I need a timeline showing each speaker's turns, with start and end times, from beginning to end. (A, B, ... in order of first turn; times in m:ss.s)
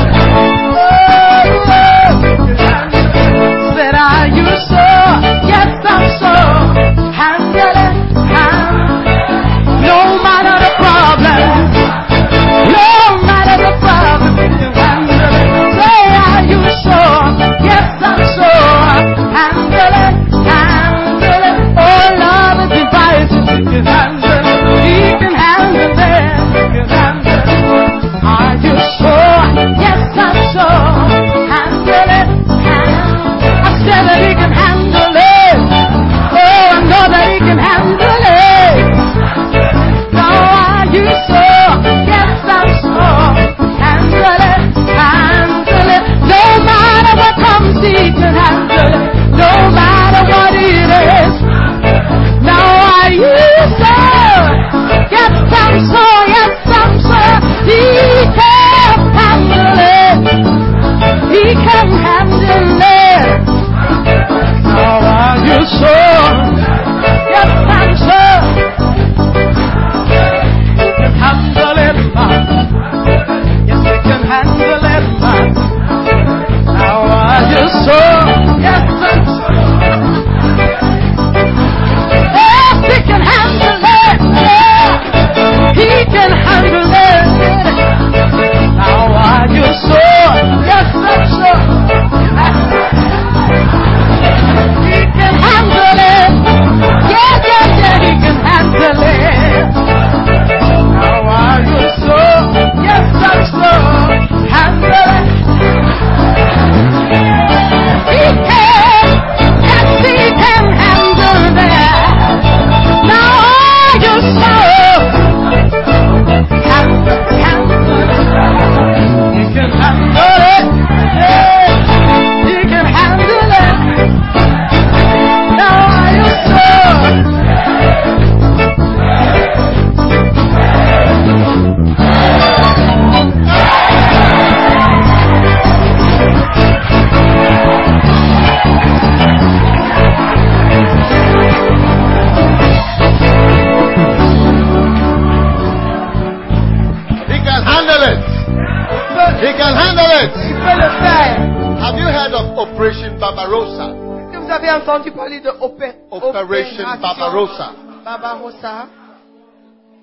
0:00.5-0:39.1 A
0:40.0-0:51.5 A
0:52.4-1:00.6 A
1:01.3-1:03.5 A
1:04.5-1:08.7 A
1:10.8-1:12.7 A
1:13.6-1:15.8 A
1:16.7-1:19.8 A
1:22.3-1:27.9 A
1:28.7-1:32.9 A
1:34.7-1:39.8 A
1:40.9-1:45.5 A
1:47.9-1:55.4 A
1:56.5-1:58.5 A
1:59.3-2:04.2 A
2:05.5-2:07.4 A
2:27.2-2:28.5 B
2:28.9-2:29.4 C
2:29.3-2:30.6 B
2:30.4-2:31.6 C
2:31.6-2:34.0 B
2:34.2-2:38.9 C
2:36.1-2:37.7 B